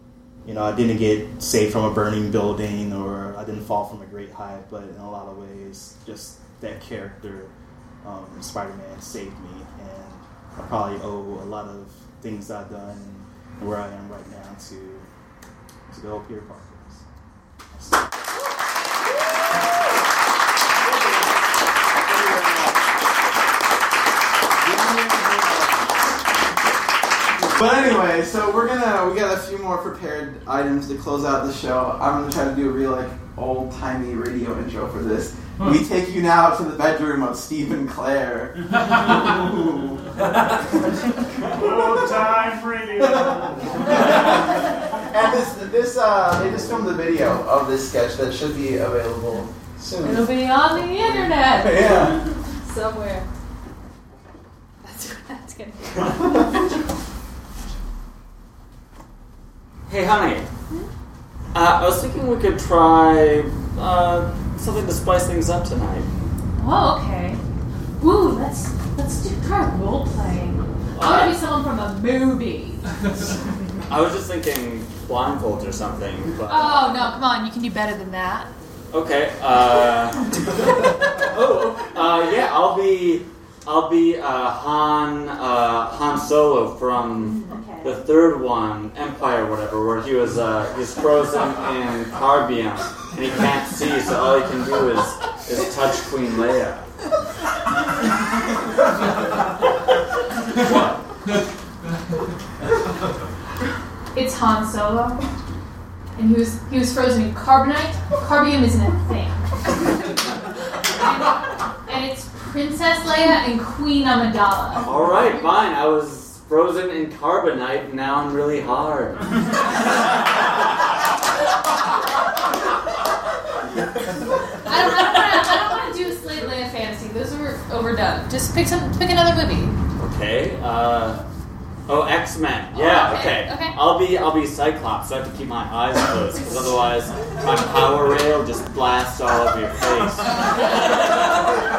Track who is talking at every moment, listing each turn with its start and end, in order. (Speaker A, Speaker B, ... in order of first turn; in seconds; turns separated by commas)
Speaker A: 0.5-7.5, Speaker A: 8.0-15.1, Speaker A: 15.9-17.0, Speaker A: 17.7-18.1, Speaker B: 22.0-22.8, Speaker B: 24.6-25.8, Speaker B: 27.4-40.7, Speaker B: 41.4-42.1, Speaker C: 41.5-43.8, Speaker B: 43.0-50.3, Speaker D: 50.0-53.2, Speaker B: 50.9-52.2, Speaker D: 54.8-56.5, Speaker E: 59.9-60.5, Speaker E: 61.5-66.1, Speaker D: 66.6-67.4, Speaker D: 68.0-72.8, Speaker E: 70.9-71.3, Speaker E: 73.9-76.9, Speaker D: 76.5-78.5, Speaker E: 78.9-80.2, Speaker E: 81.2-96.8, Speaker D: 87.2-88.0, Speaker E: 100.6-100.9, Speaker D: 104.1-105.2, Speaker D: 106.2-109.9, Speaker D: 110.8-114.9, Speaker E: 114.8-119.4, Speaker D: 124.6-129.8, Speaker E: 130.0-131.2, Speaker E: 131.9-141.1, Speaker D: 132.7-133.8